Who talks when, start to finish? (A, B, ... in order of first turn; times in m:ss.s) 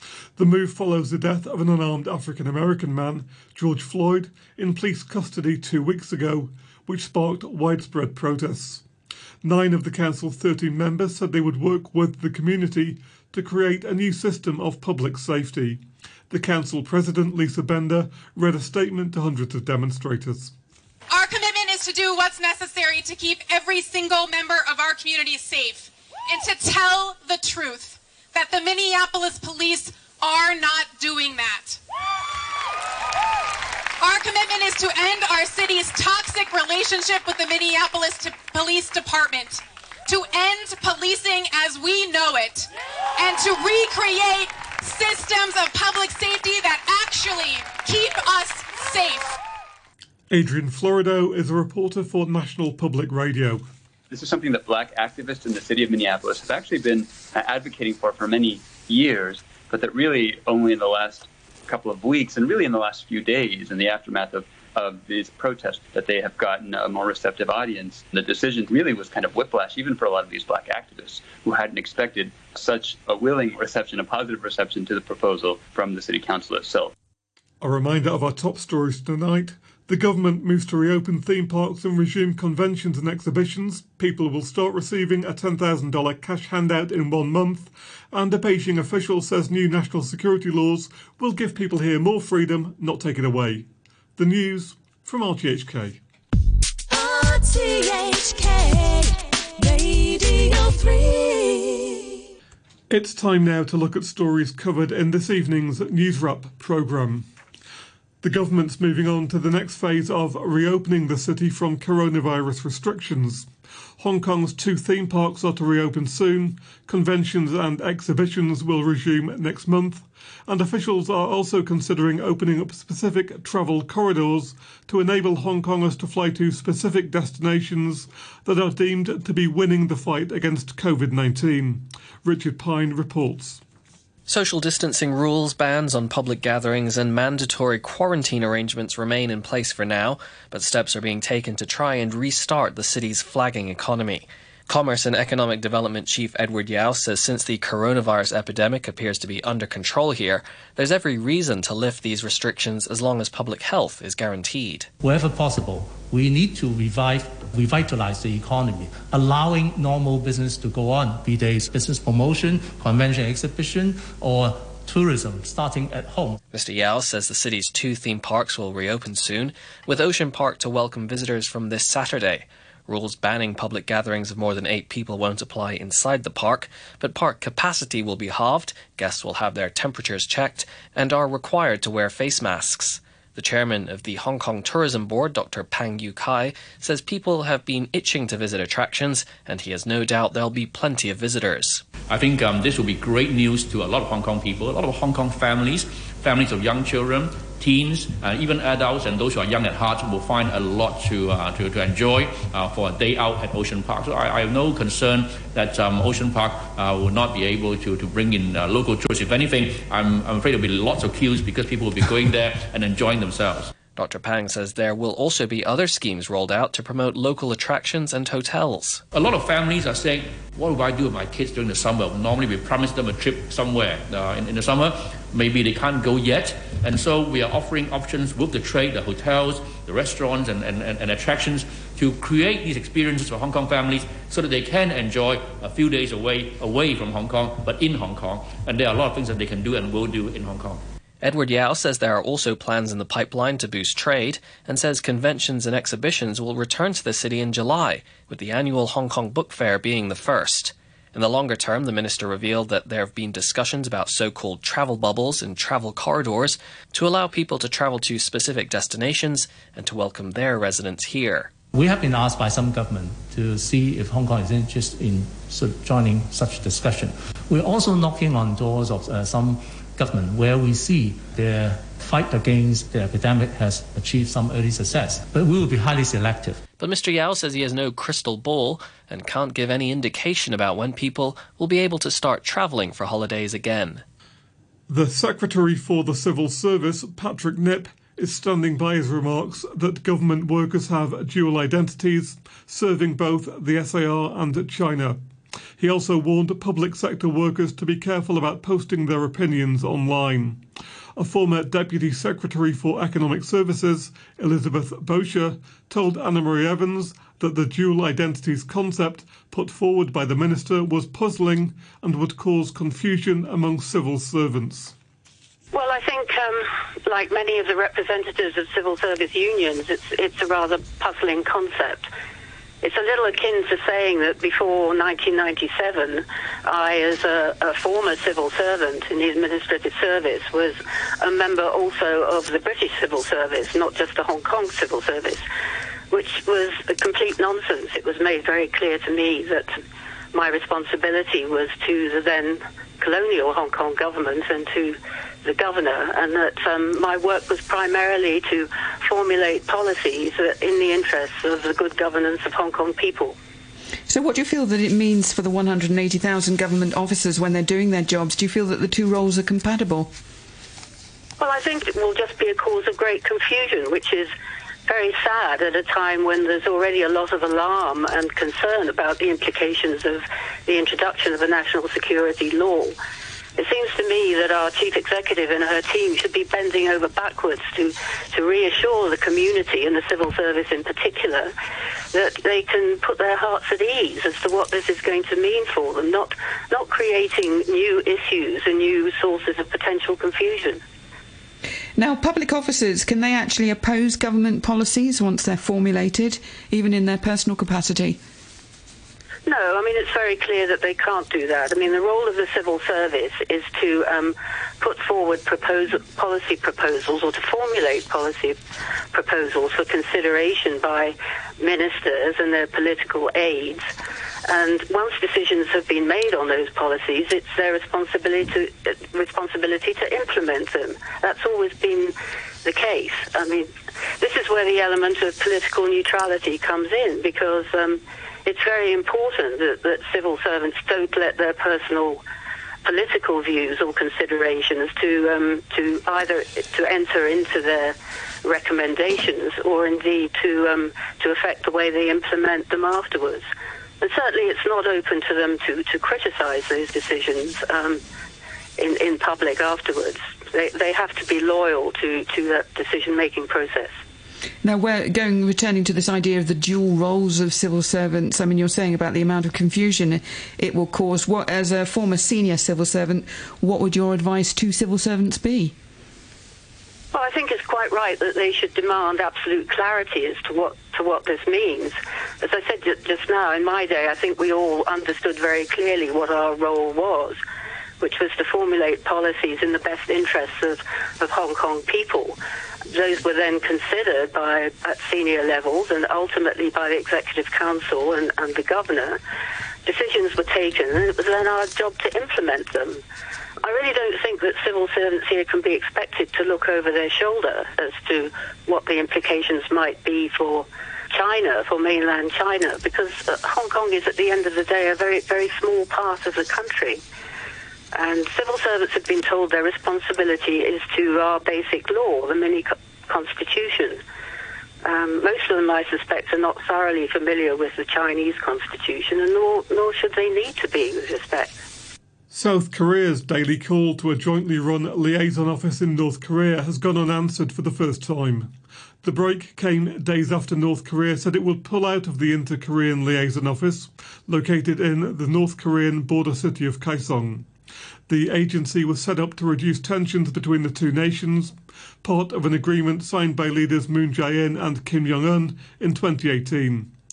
0:00.4-0:08.8 A
0:09.4-0:20.5 A
0:21.1-0:31.8 B
0:34.0-0:49.4 B
0:50.3-0:53.6 A
0:54.1-1:16.9 C
1:17.6-1:36.0 A
1:36.9-1:42.0 D
1:42.9-1:47.3 A
1:48.2-1:53.5 A
1:54.0-2:13.6 A
2:14.3-2:34.9 E
2:35.0-2:46.4 F
2:46.5-3:11.8 E
3:12.1-3:33.7 G
3:33.9-3:39.0 E
3:39.1-4:00.8 G
4:01.2-4:21.5 E
4:21.7-4:36.6 F
4:36.8-4:44.0 E
4:44.9-4:55.2 A
4:55.8-5:00.6 A
5:01.2-5:14.9 A
5:15.7-5:22.1 H
5:22.8-5:35.4 H
5:36.1-5:39.7 H
5:40.3-5:53.4 H
5:54.1-6:00.1 I
6:01.4-6:04.3 H
6:04.9-6:12.9 H
6:13.6-6:21.5 H
6:22.1-6:30.8 H
6:32.0-6:38.2 I
6:39.4-6:48.6 H
6:49.1-6:53.8 H
6:54.5-7:02.1 H
7:02.6-7:12.2 H
7:12.8-7:23.4 H
7:24.0-7:28.0 H
7:28.8-7:34.0 H
7:34.6-7:45.7 I
7:47.1-7:57.4 H
7:58.0-8:02.4 H
8:02.9-8:09.2 H
8:09.8-8:13.0 H
8:13.6-8:27.0 H
8:27.9-8:34.0 H
8:34.8-8:41.6 H
8:42.3-8:48.5 A
8:49.0-8:57.5 A
8:58.1-9:06.9 A